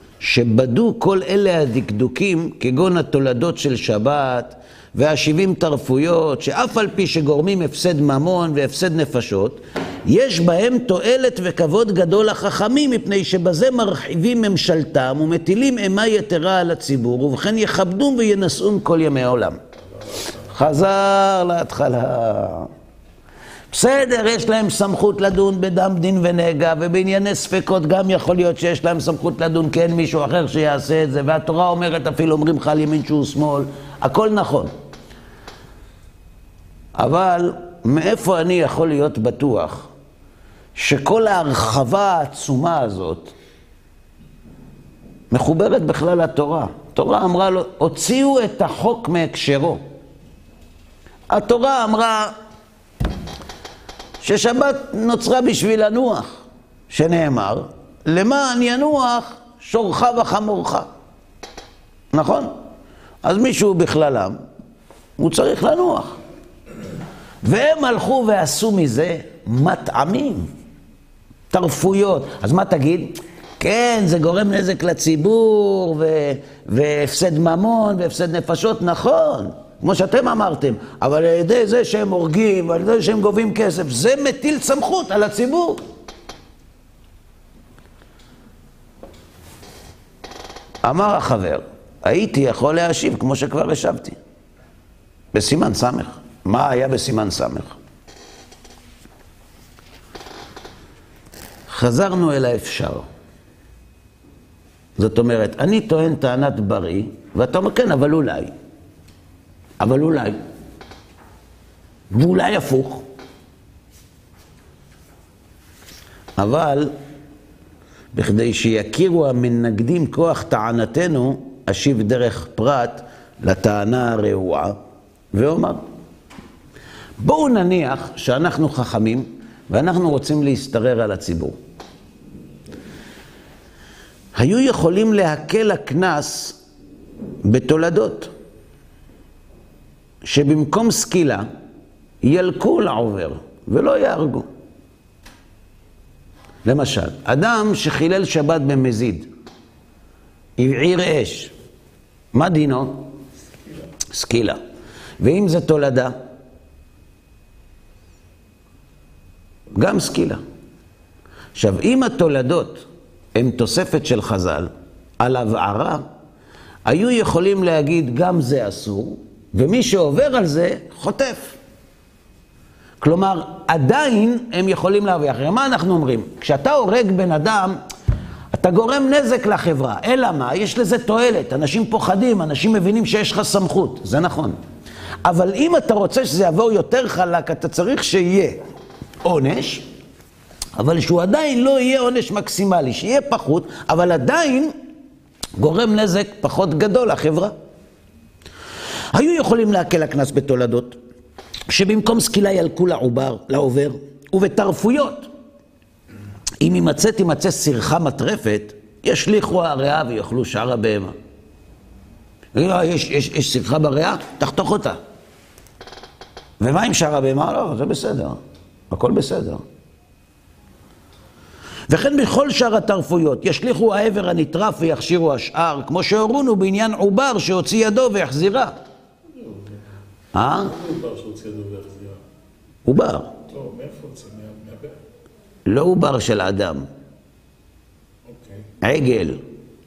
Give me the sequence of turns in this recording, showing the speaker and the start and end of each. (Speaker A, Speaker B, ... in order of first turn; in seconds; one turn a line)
Speaker A: 0.2-19.6
Speaker B: 20.0-20.4
Speaker A: 20.5-22.7
Speaker A: 23.7-34.7
Speaker A: 37.0-39.9
Speaker A: 40.8-43.3
Speaker A: 45.3-49.8
Speaker A: 51.3-52.3
Speaker A: 54.2-56.4
Speaker A: 56.9-60.9
Speaker A: 62.1-62.5
Speaker A: 63.2-64.4
Speaker A: 65.2-66.2
Speaker A: 67.4-70.5
Speaker A: 71.5-85.8
Speaker A: 90.8-94.2
Speaker A: 95.3-97.8
Speaker A: 101.7-103.0
Speaker A: 105.0-108.5
Speaker A: 109.8-110.4
Speaker A: 112.1-113.0
Speaker A: 116.4-116.9
Speaker A: 118.1-124.8
Speaker A: 125.3-125.8
Speaker A: 127.2-131.6
Speaker A: 134.4-136.6
Speaker A: 137.4-138.3
Speaker A: 140.2-141.5
Speaker A: 142.2-144.5
Speaker A: 146.7-149.3
Speaker A: 150.6-151.5
Speaker A: 152.3-153.1
Speaker A: 154.1-154.6
Speaker A: 155.2-156.2
Speaker A: 159.8-160.4
Speaker A: 161.6-166.0
Speaker A: 166.9-171.6
Speaker A: 173.0-177.8
Speaker A: 178.5-184.6
Speaker A: 185.2-188.6
Speaker A: 189.2-189.8
Speaker A: 190.8-194.7
Speaker A: 195.6-197.5
Speaker A: 199.1-201.0
Speaker A: 201.7-205.3
Speaker A: 206.6-211.1
Speaker A: 212.6-215.0
Speaker A: 216.6-218.4
Speaker A: 218.9-219.6
Speaker A: 221.9-228.8
Speaker B: 229.3-229.8
Speaker A: 230.3-230.7
Speaker B: 230.6-232.2
Speaker A: 232.9-233.3
Speaker B: 233.5-235.0
Speaker A: 235.7-236.9
Speaker B: 238.3-238.7
Speaker A: 238.8-239.4